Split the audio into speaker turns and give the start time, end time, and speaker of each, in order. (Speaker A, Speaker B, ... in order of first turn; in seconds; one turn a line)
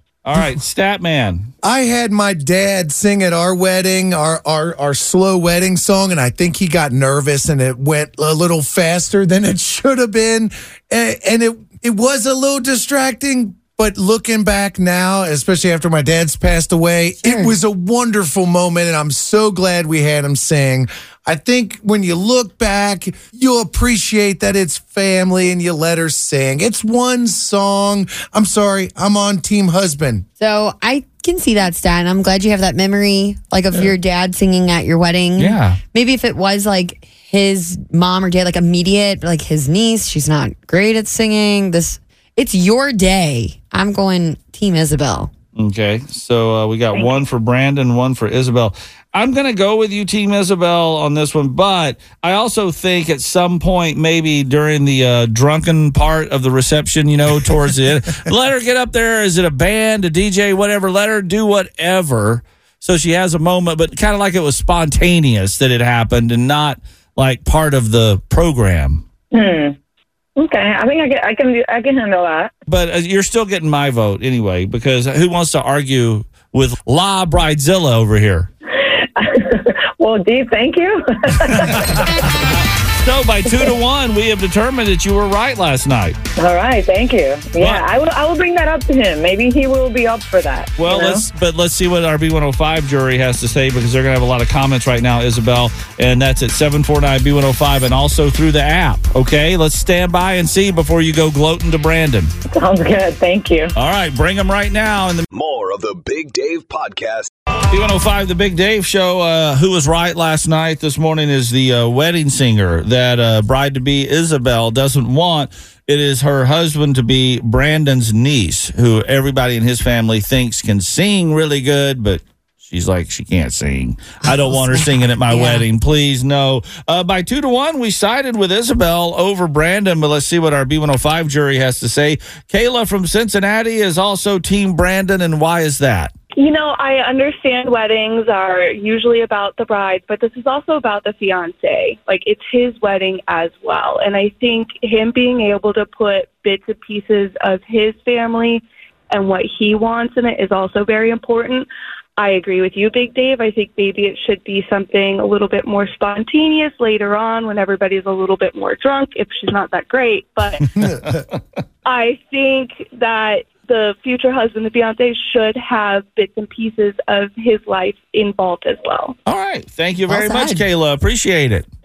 Speaker A: 0.2-1.5
Speaker B: 1.6-30.3
Speaker C: 17.2-17.5
Speaker C: 30.4-45.3
Speaker A: 35.4-35.8
Speaker A: 45.6-69.0
Speaker D: 46.9-47.2
Speaker D: 69.3-69.8
Speaker D: 70.4-72.5
Speaker A: 72.7-78.5
Speaker D: 78.9-82.3
Speaker A: 81.5-86.2
Speaker D: 86.4-91.2
Speaker A: 87.6-87.8
Speaker A: 90.8-102.3
Speaker D: 102.5-103.7
Speaker A: 103.8-105.3
Speaker E: 105.3-107.3
Speaker A: 107.7-136.1
Speaker C: 124.5-125.7
Speaker F: 136.4-151.7
Speaker F: 152.2-160.8
Speaker F: 161.9-169.2
Speaker A: 169.3-171.7
Speaker C: 170.1-170.7